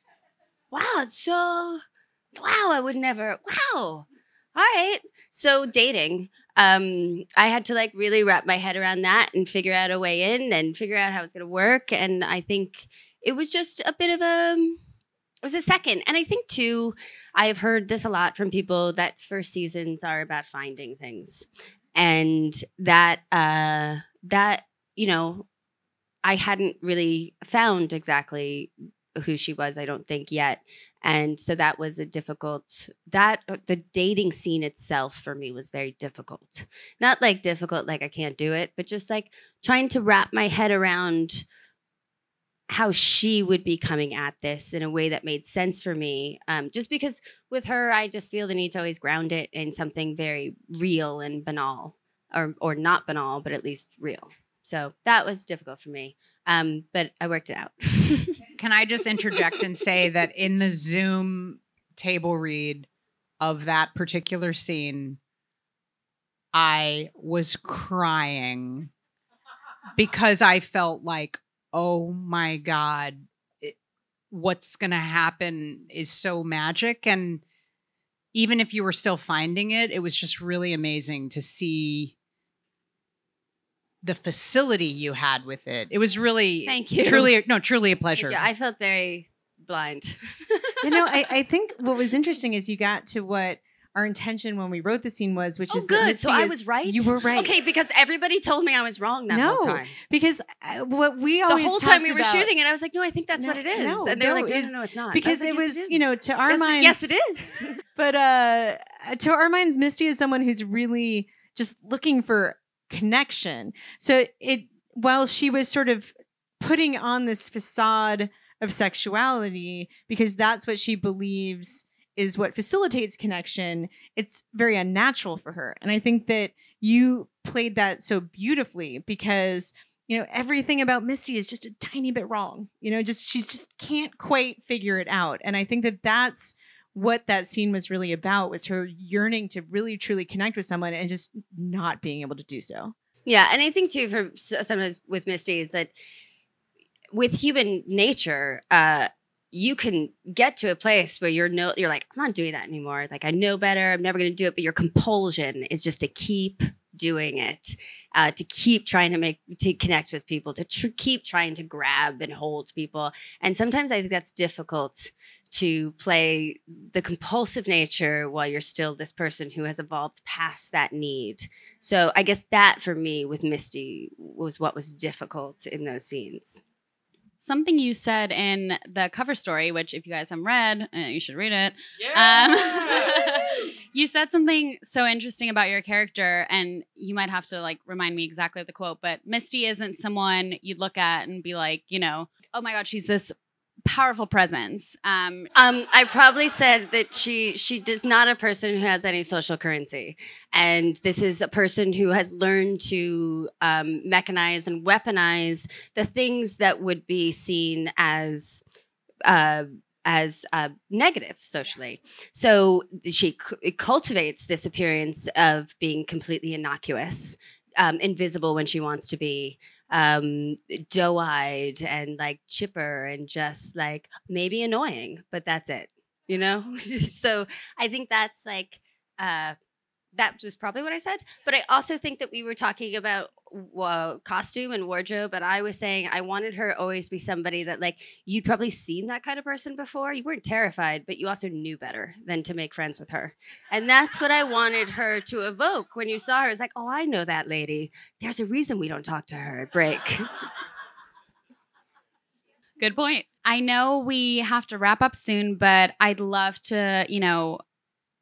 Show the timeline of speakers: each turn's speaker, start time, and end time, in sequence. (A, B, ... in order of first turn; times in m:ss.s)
0:00.7-0:01.8 A
0:02.3-0:14.8 A
0:15.4-0:25.5 A
0:26.2-0:41.4 A
0:42.7-0:58.4 A
0:58.6-1:02.9 B
1:03.4-1:05.2 B
1:06.5-1:08.9 B
1:10.0-1:13.8 B
1:14.3-1:17.4 B
1:18.3-1:22.1 B
1:24.0-1:28.4 B
1:26.6-1:27.3 A
1:28.2-1:31.0 A
1:30.8-1:37.7 C
1:35.7-1:40.0 A
1:39.3-1:42.5 C
1:41.5-1:47.2 A
1:43.4-2:22.9 C
2:23.2-2:25.9 A
2:27.1-2:56.6 A
2:57.4-3:13.3 D
3:13.8-3:15.5 D
3:15.5-3:28.6 A
3:29.2-3:49.6 A
3:50.1-4:10.3 A
4:12.8-4:17.6 D